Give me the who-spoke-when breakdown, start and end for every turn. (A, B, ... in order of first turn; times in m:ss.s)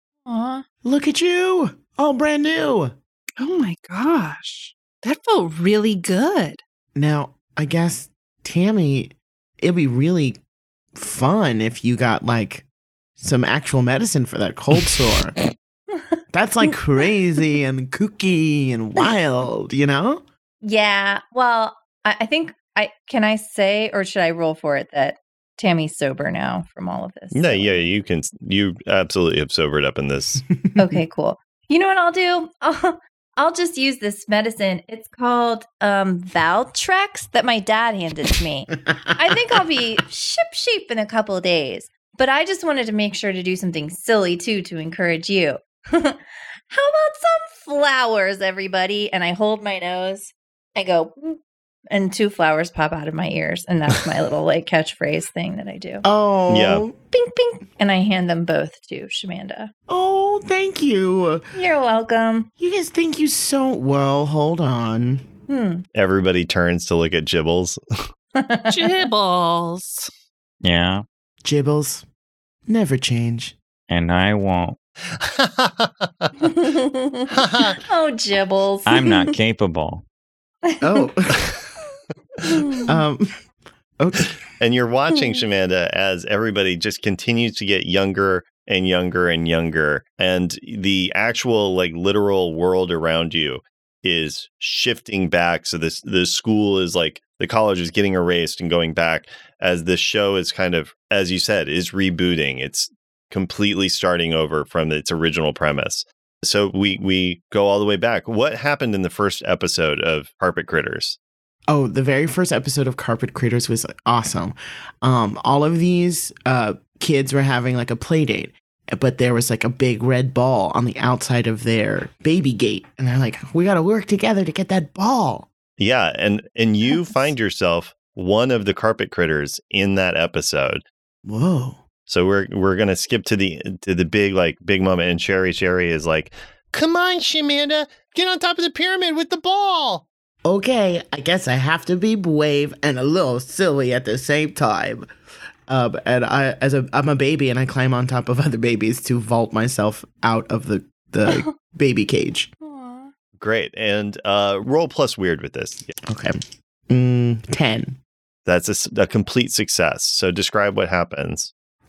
0:00.3-0:00.6 A
0:00.8-0:03.0 B
0:03.4-0:06.6 C
0:07.0-0:10.4 B
0:11.0-0:12.7 B
0:13.2-0:15.4 B
0:16.3-0:20.2 B
0:20.6-0:27.8 A
0:27.3-0:30.4 D
0:30.8-0:51.4 A
0:51.9-0:56.1 A
0:56.0-0:57.0 B
0:56.5-0:56.9 D
0:57.1-0:59.7 A
0:59.9-1:01.4 B
1:01.5-1:02.5 A
1:02.6-1:05.3 B
1:05.5-1:05.8 A
1:06.0-1:07.8 D
1:08.4-1:09.1 A
1:08.7-1:10.1 C
1:10.6-1:11.0 E
1:11.4-1:12.0 B
1:12.7-1:13.6 B
1:13.9-1:14.8 E
1:15.1-1:16.3 D
1:16.4-1:17.3 A
1:17.3-1:17.8 D
1:17.8-1:19.3 A
1:18.9-1:20.0 E
1:20.7-1:21.0 A
1:20.8-1:21.5 B
1:22.4-1:22.9 A
1:22.9-1:23.3 B
1:24.0-1:24.4 B
1:24.6-1:51.2 D
1:51.7-2:05.5 B
2:05.8-2:10.8 D
2:11.2-2:11.8 B
2:12.1-2:20.0 D
2:20.4-2:25.1 B
2:25.7-2:32.5 B
2:32.6-2:33.1 A
2:33.4-2:35.9 D
2:36.1-2:36.4 B
2:36.9-2:38.0 B
2:38.5-2:41.5 D